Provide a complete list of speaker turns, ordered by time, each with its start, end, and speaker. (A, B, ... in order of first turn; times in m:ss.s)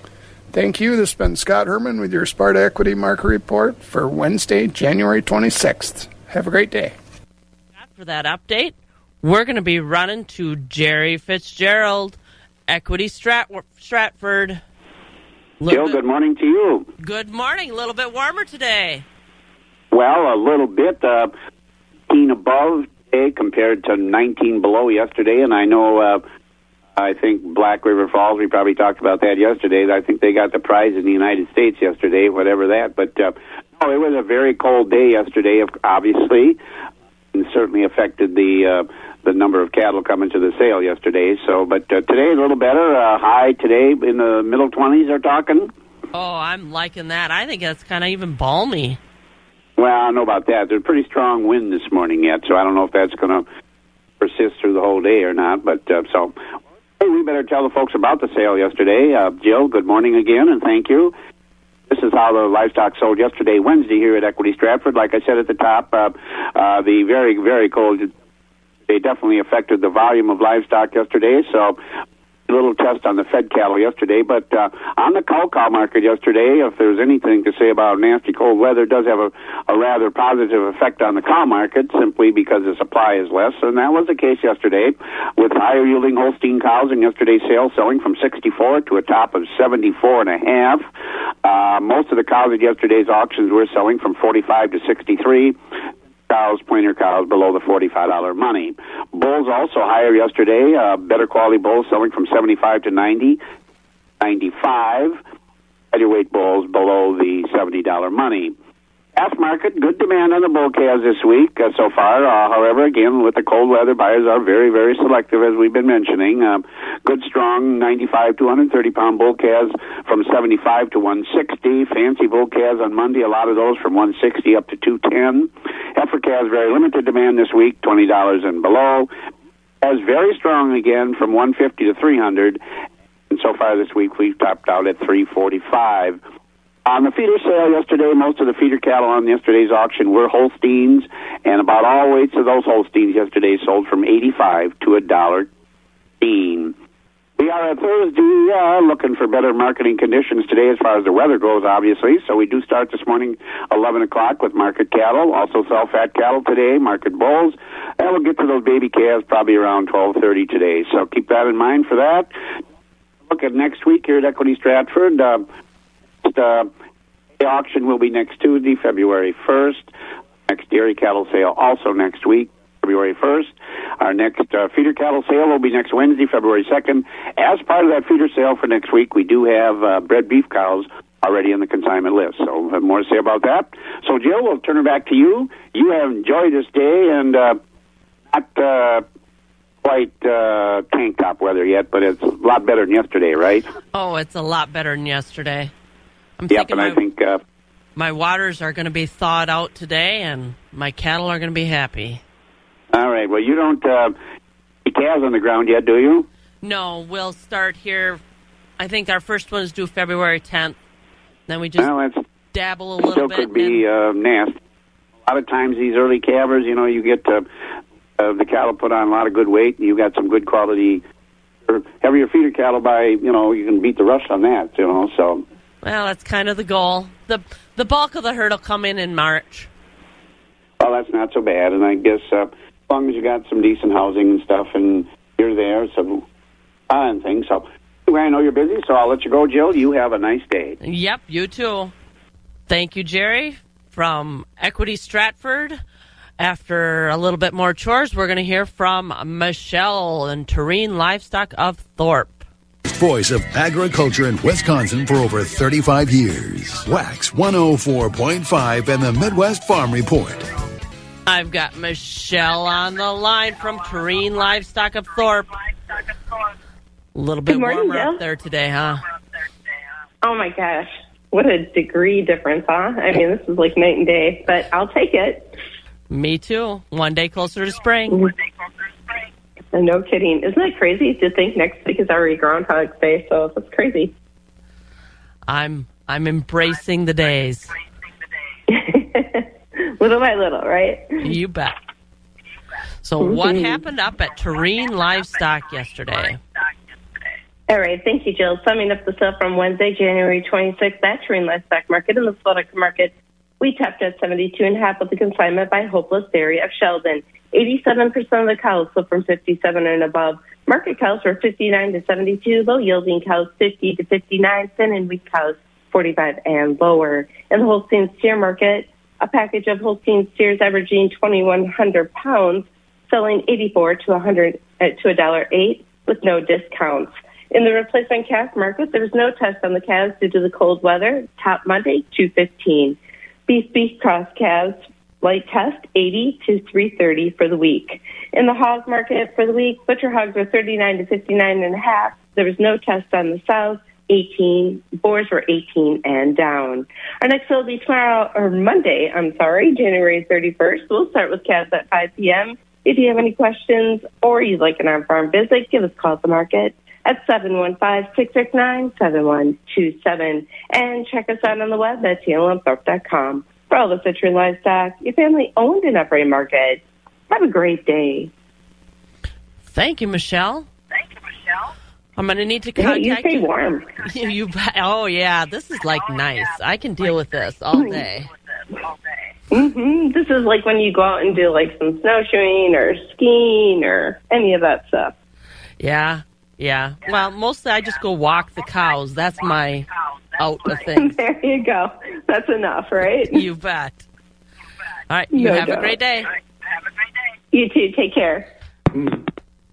0:00.5-0:06.9 A
0:07.8-0:14.6 B
0:15.6-0:16.0 B
0:15.7-0:16.9 C
0:17.0-0:19.0 B
0:19.9-0:21.3 C
0:22.1-0:26.2 C
0:27.0-0:36.6 C
0:37.3-0:45.7 C
0:46.1-0:49.0 B
0:49.8-0:53.4 C
0:54.2-0:56.4 C
0:57.0-1:01.1 C
1:01.9-1:08.1 C
1:08.9-1:11.8 C
1:12.5-1:30.9 C
1:31.4-1:35.6 C
1:36.3-1:43.4 C
1:44.2-1:45.2 C
1:45.9-1:48.5 C
1:49.2-2:09.1 C
2:09.8-2:12.6 C
2:13.3-2:16.2 C
2:16.8-2:25.5 C
2:26.2-2:26.7 C
2:27.4-2:42.3 C
2:43.3-2:45.4 C
2:46.2-2:46.7 C
2:47.4-2:49.9 C
2:50.5-3:07.6 C
3:08.3-3:09.0 C
3:09.8-3:13.7 C
3:13.9-3:15.7 B
3:16.4-3:17.0 B
3:16.5-3:17.4 C
3:18.0-3:22.2 B
3:22.9-3:24.2 C
3:24.8-3:26.3 C
3:26.6-3:28.2 B
3:28.8-3:30.8 B
3:31.5-3:32.0 B
3:31.8-3:32.2 C
3:32.5-3:33.8 B
3:33.0-3:34.6 C
3:35.2-3:37.4 C
3:38.2-3:41.0 C
3:41.7-3:45.4 C
3:45.8-3:49.7 B
3:50.8-3:56.2 C
3:56.9-4:00.8 C
4:00.8-4:01.9 B
4:02.7-4:05.8 B
4:06.4-4:12.4 B
4:12.8-4:20.5 D
4:21.2-4:25.5 B
4:27.1-4:29.0 B
4:27.5-4:28.2 E
4:30.2-4:35.5 E
4:36.1-4:38.3 B
4:39.7-4:44.1 E
4:45.5-4:47.7 B
4:48.7-4:51.1 E
4:51.2-4:51.7 B
4:53.0-4:56.4 B
4:53.2-4:53.8 E
4:57.7-6:08.3 E
6:09.6-6:10.7 B
6:12.2-6:18.3 B
6:12.8-6:13.9 E
6:19.5-6:25.1 E
6:25.8-6:31.2 B
6:30.9-6:33.4 E
6:33.3-6:34.0 B
6:35.1-6:36.3 B
6:35.3-6:36.0 E
6:37.5-6:38.5 E